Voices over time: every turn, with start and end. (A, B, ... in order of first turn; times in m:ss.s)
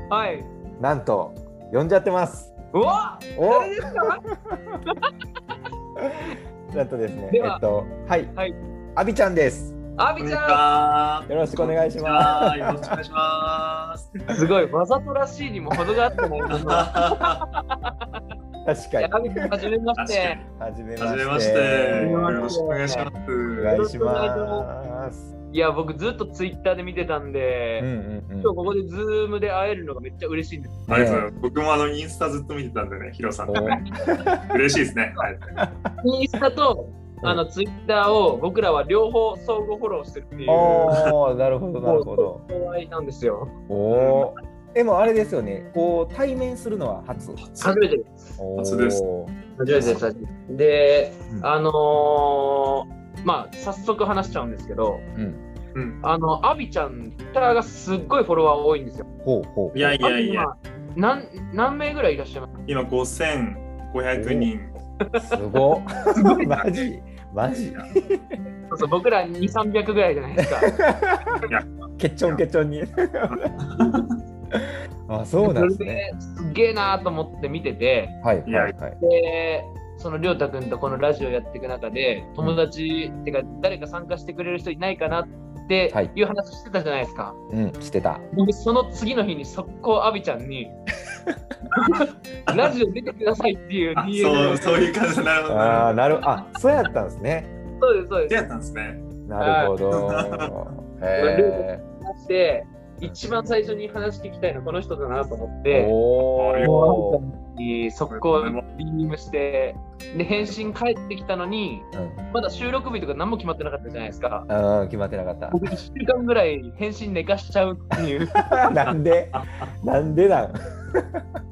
0:00.1-0:00.5 A
0:00.8-0:02.5 B
0:02.7-0:04.2 A
0:03.4-0:04.6 B
0:06.0-0:08.4 B
0:07.3-0:07.6 A
0:09.0-0:09.8 B
0:10.0-0:10.6 A
0:10.2-0:14.2 C
0:11.3-0:12.8 B
0:14.3-0:17.2 A
0:16.6-0:17.4 C
0:18.6-0:19.6 B
0:19.0-0:20.4 A
0:20.0-0:20.4 C
0:20.5-0:22.5 B
0:21.0-0:23.8 C
0:21.9-0:23.1 A
0:23.6-0:25.3 B
0:23.6-0:24.7 A
0:25.5-0:27.9 A
0:27.8-0:28.6 B
0:28.4-0:31.0 A
0:30.9-0:33.8 C
0:30.9-0:31.3 B
0:33.4-0:34.4 B
0:33.5-0:33.9 A
0:34.5-0:35.6 C
0:35.6-0:36.0 B
0:36.0-0:40.9 A
0:40.5-0:42.4 B
0:41.8-0:43.5 A
0:43.7-0:47.4 B
0:43.9-0:44.4 C
0:47.4-0:47.8 C
0:47.6-0:48.4 A
0:48.4-0:50.0 B
0:48.6-0:49.0 C
0:49.6-0:55.0 A
0:55.1-0:55.4 B
0:55.7-0:56.0 C
0:56.0-0:59.1 A
0:59.2-1:00.0 B
0:59.7-1:00.5 C
1:00.0-1:02.5 A
1:02.7-1:04.8 C
1:04.2-1:04.5 B
1:05.2-1:08.4 B
1:06.2-1:06.5 A
1:06.4-1:06.9 C
1:07.5-1:07.9 C
1:08.7-1:10.7 A
1:10.7-1:11.2 B
1:12.0-1:13.5 B
1:13.3-1:14.1 C
1:14.6-1:16.0 B
1:15.4-1:18.2 A
1:18.2-1:19.0 B
1:18.5-1:18.8 C
1:19.0-1:27.4 A
1:27.5-1:28.3 B
1:28.3-1:30.8 A
1:31.7-1:34.9 A
1:32.5-1:32.7 C
1:34.0-1:36.2 C
1:35.5-1:37.5 B
1:37.8-1:38.5 A
1:38.3-1:39.0 C
1:39.3-1:41.8 B
1:39.4-1:39.8 A
1:39.9-1:40.5 C
1:41.2-1:45.9 A
1:45.7-1:47.2 B
1:46.4-1:46.8 C
1:46.6-1:54.5 A
1:48.1-1:48.6 C
1:50.4-1:50.8 B
1:51.9-1:52.2 B
1:54.5-1:55.6 B
1:55.5-1:58.4 A
1:58.5-2:01.2 B
1:58.8-1:59.7 C